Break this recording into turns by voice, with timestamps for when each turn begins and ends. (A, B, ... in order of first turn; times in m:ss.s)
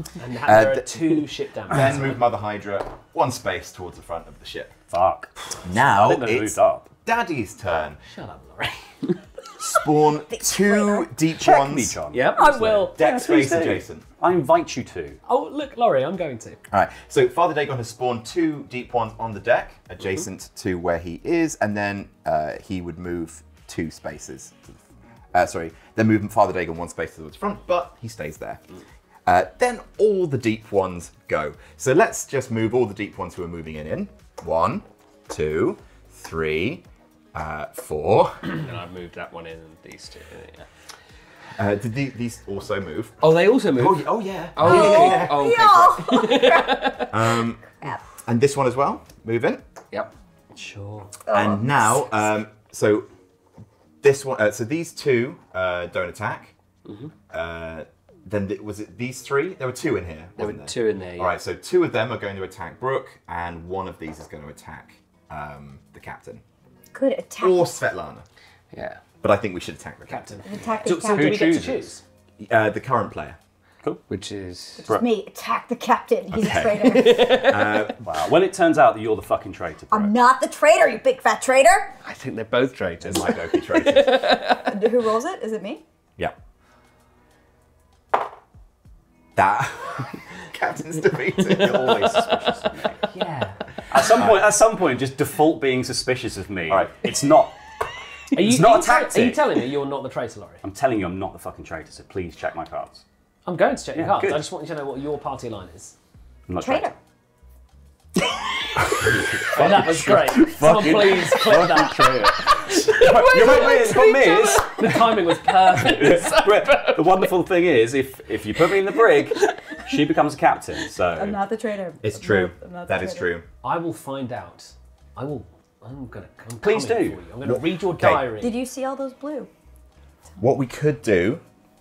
0:00.2-0:02.2 A
0:00.5-0:04.8 B
0:04.9-0:06.9 C
0:05.6-0:08.0 B
0:08.1-0:09.2 A
0:09.6-0:12.0 B
0:10.3-0:11.1 D
0:11.4-0:15.2 C
0:12.1-0:13.8 E
0:12.3-0:13.0 A
0:12.9-0:14.0 B
0:15.3-0:16.6 A
0:16.7-0:24.8 B
0:25.3-0:28.6 B
0:29.3-0:38.6 B
0:38.5-0:40.7 E
0:41.6-0:45.6 B
0:43.2-0:47.1 E
0:44.6-0:47.1 D
0:47.1-0:47.6 B
0:48.2-0:49.6 B
0:50.6-0:51.1 A
0:51.3-0:52.0 D
0:51.3-0:53.1 B
0:54.0-0:56.5 B
0:56.9-0:57.1 E
0:57.3-1:06.4 B
1:00.4-1:01.4 E
1:06.9-1:07.6 D
1:07.4-1:08.2 B
1:08.7-1:09.0 E
1:09.2-1:10.4 B
1:10.1-1:12.0 A
1:10.5-1:11.6 D
1:10.9-1:11.9 C
1:11.1-1:11.6 E
1:12.4-1:13.4 B
1:14.1-1:14.9 E
1:14.8-1:17.4 D
1:16.3-1:18.1 B
1:17.0-1:17.6 E
1:18.0-1:20.1 C
1:19.9-1:22.0 D
1:22.0-1:24.7 E
1:23.0-1:24.2 B
1:24.5-1:25.8 D
1:29.4-1:33.1 B
1:33.1-1:33.6 A
1:33.9-1:37.6 C
1:34.0-1:34.4 B
1:36.7-1:37.0 B
1:38.3-1:39.4 C
1:38.3-1:40.6 A
1:40.6-1:43.0 C
1:43.5-1:46.0 A
1:43.9-1:44.5 C
1:46.5-1:46.9 C
1:46.6-1:47.0 D
1:48.9-2:01.4 C
1:49.5-1:53.4 A
1:53.3-1:54.7 D
1:54.6-1:56.8 A
2:01.1-2:03.3 D
2:02.0-2:03.4 B
2:03.6-2:08.6 A
2:06.6-2:07.2 C
2:07.4-2:08.3 B
2:08.4-2:09.5 D
2:10.4-2:11.4 B